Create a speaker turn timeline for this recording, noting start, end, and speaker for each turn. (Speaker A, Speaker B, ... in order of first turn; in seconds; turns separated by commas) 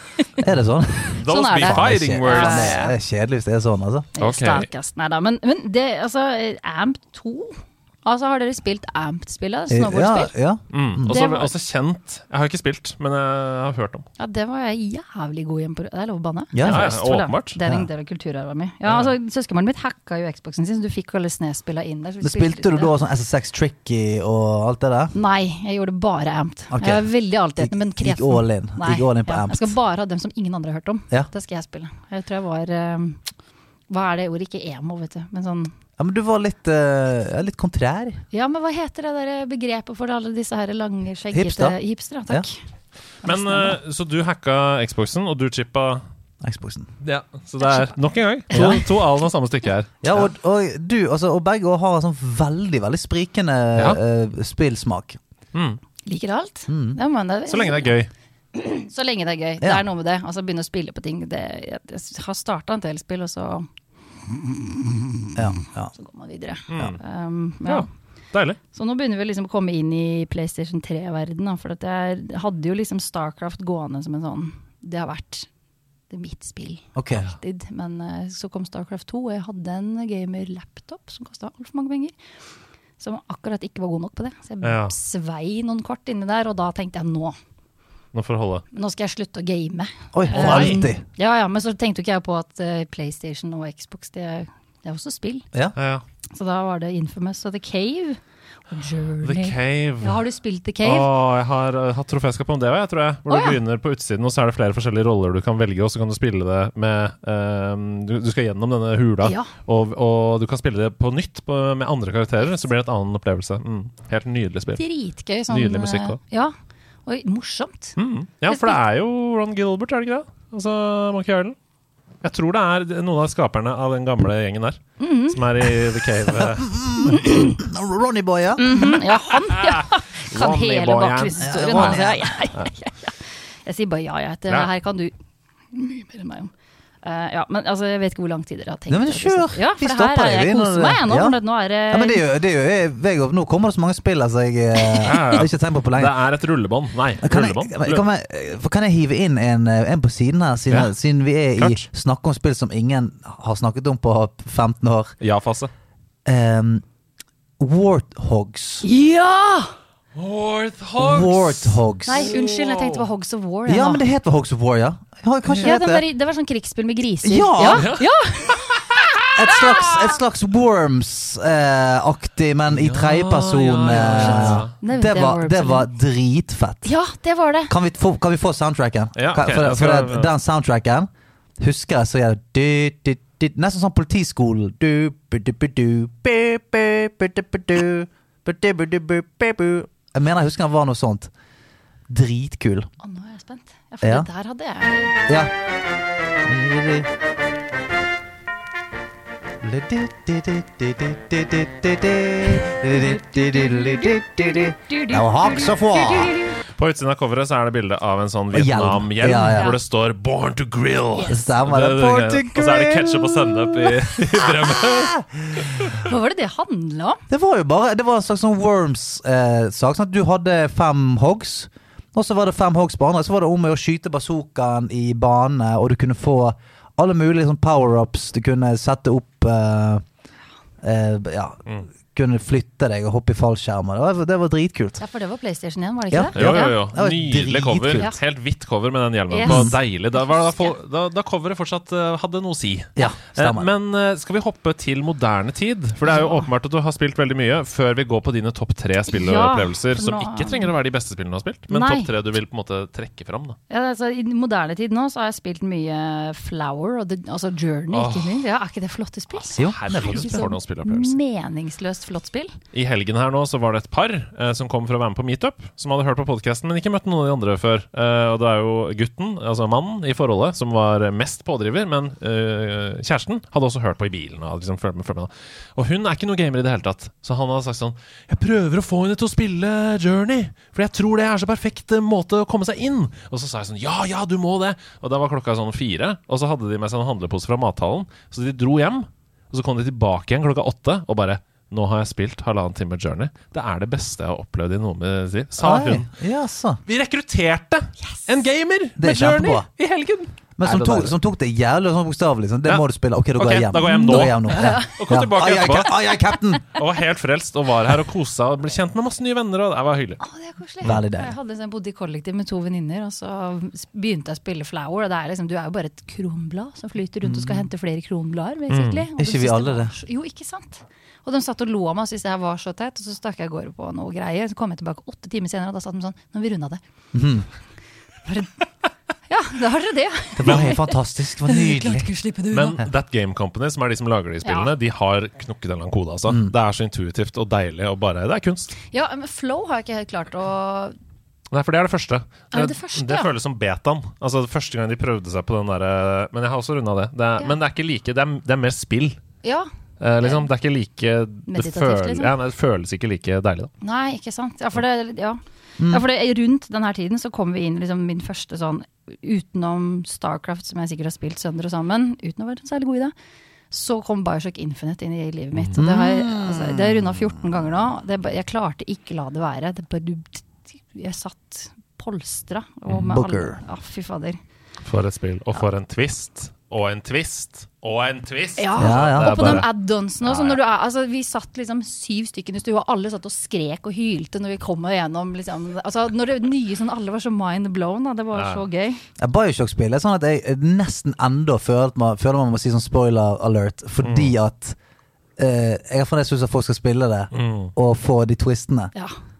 Speaker A: 0.4-4.1, Speaker B: 1.2-2.8, Speaker C: 1.3-2.9, Speaker C: 4.2-10.3, Speaker B: 4.2-4.7, Speaker A: 9.7-11.1, Speaker B: 10.7-14.1, Speaker C: 11.1-11.5, Speaker C: 14.2-22.9, Speaker A: 16.5-16.9, Speaker B: 16.6-17.6, Speaker B: 18.9-19.1, Speaker A: 22.2-25.1, Speaker C: 25.1-33.3, Speaker A: 26.7-27.1, Speaker A: 27.6-29.7, Speaker C: 33.9-35.7, Speaker A: 36.0-38.2, Speaker C: 38.3-42.6, Speaker A: 41.3-41.8, Speaker C: 43.2-43.8, Speaker B: 43.2-46.0, Speaker A: 46.4-46.9, Speaker B: 47.0-50.3, Speaker C: 48.5-48.8, Speaker A: 48.5-48.8, Speaker A: 50.0-55.2, Speaker B: 55.5-55.8, Speaker C: 56.0-57.9, Speaker A: 56.7-57.0, Speaker B: 57.5-58.1, Speaker C: 58.5-63.6, Speaker C: 64.3-65.4, Speaker A: 65.3-65.9, Speaker C: 66.0-67.9, Speaker B: 66.7-67.0, Speaker B: 67.6-68.6, Speaker C: 68.7-75.5, Speaker C: 76.1-82.2, Speaker A: 77.0-77.2, Speaker C: 83.0-87.3, Speaker B: 84.6-84.9, Speaker B: 88.1-88.6, Speaker C: 88.7-95.5, Speaker A: 90.1-91.0, Speaker B: 90.3-90.8, Speaker B: 95.8-96.0, Speaker C: 96.3-101.1, Speaker B: 99.2-100.2, Speaker B: 100.8-114.8, Speaker C: 103.3-103.6, Speaker C: 109.2-109.5, Speaker C: 114.8-116.5, Speaker B: 115.5-116.2, Speaker C: 117.0-118.0, Speaker B: 118.0-121.5, Speaker C: 118.5-118.8, Speaker B: 122.2-126.7, Speaker C: 125.0-125.8, Speaker A: 126.3-128.7, Speaker C: 127.1-127.6, Speaker C: 128.6-135.1, Speaker B: 129.3-132.7, Speaker A: 131.4-132.3, Speaker C: 135.7-136.5, Speaker C: 137.0-142.2, Speaker A: 138.9-141.4, Speaker A: 141.9-146.1, Speaker B: 145.0-148.0, Speaker A: 147.2-155.1, Speaker B: 151.6-151.9, Speaker B: 155.2-155.7, Speaker A: 156.2-156.8, Speaker A: 157.6-158.9, Speaker C: 158.8-159.7, Speaker B: 160.1-163.0, Speaker A: 161.0-162.3, Speaker C: 162.1-164.0, Speaker A: 163.7-166.0, Speaker C: 165.6-169.0, Speaker A: 167.2-167.9, Speaker B: 167.7-169.5, Speaker A: 169.3-176.9, Speaker C: 169.5-169.9, Speaker B: 172.7-174.7, Speaker C: 173.9-175.8, Speaker C: 176.8-177.7, Speaker A: 177.7-191.3, Speaker B: 179.2-180.3, Speaker A: 192.1-192.9, Speaker C: 193.0-195.2, Speaker A: 194.0-194.3, Speaker A: 195.3-195.5, Speaker A: 196.4-197.1, Speaker A: 199.6-206.3, Speaker C: 202.9-206.5, Speaker B: 206.8-215.8, Speaker A: 208.5-209.7, Speaker C: 209.4-209.8, Speaker C: 211.2-211.4, Speaker A: 211.3-215.7, Speaker C: 215.9-217.2, Speaker A: 217.3-230.1, Speaker A: 230.8-235.0, Speaker C: 235.0-236.8, Speaker A: 236.1-238.1, Speaker B: 236.3-253.6, Speaker C: 239.3-240.7, Speaker A: 239.4-239.8, Speaker A: 243.0-243.7, Speaker C: 246.1-246.4, Speaker C: 249.1-250.7, Speaker C: 251.7-252.1, Speaker C: 253.7-262.5, Speaker B: 257.9-258.4, Speaker B: 259.3-261.1, Speaker A: 259.5-260.4, Speaker B: 262.7-296.1, Speaker A: 295.6-296.8, Speaker B: 296.9-301.1, Speaker A: 299.0-299.7, Speaker A: 300.6-306.7, Speaker B: 302.6-305.9, Speaker C: 303.8-305.0, Speaker B: 306.7-310.2, Speaker C: 310.2-326.8, Speaker A: 310.8-311.3, Speaker A: 317.2-317.6, Speaker B: 318.7-319.1, Speaker A: 319.2-319.9, Speaker A: 327.1-327.5, Speaker C: 328.2-328.5, Speaker C: 329.3-332.8, Speaker A: 330.4-332.1, Speaker B: 330.4-330.7, Speaker B: 332.5-338.7, Speaker C: 334.4-334.7, Speaker A: 336.3-336.5, Speaker C: 338.9-340.9, Speaker B: 341.5-349.2, Speaker C: 342.5-343.3, Speaker C: 349.4-349.7, Speaker B: 350.0-353.7, Speaker C: 350.2-350.5, Speaker C: 351.5-352.3, Speaker C: 353.8-363.1, Speaker A: 355.8-356.0, Speaker C: 363.7-374.4, Speaker A: 365.7-367.3, Speaker A: 372.9-373.6, Speaker B: 374.8-379.7, Speaker C: 378.6-389.0, Speaker A: 378.8-379.6, Speaker B: 380.2-380.6, Speaker B: 388.3-388.6, Speaker A: 389.2-394.8, Speaker B: 394.0-394.4, Speaker A: 395.4-398.9, Speaker B: 397.3-397.7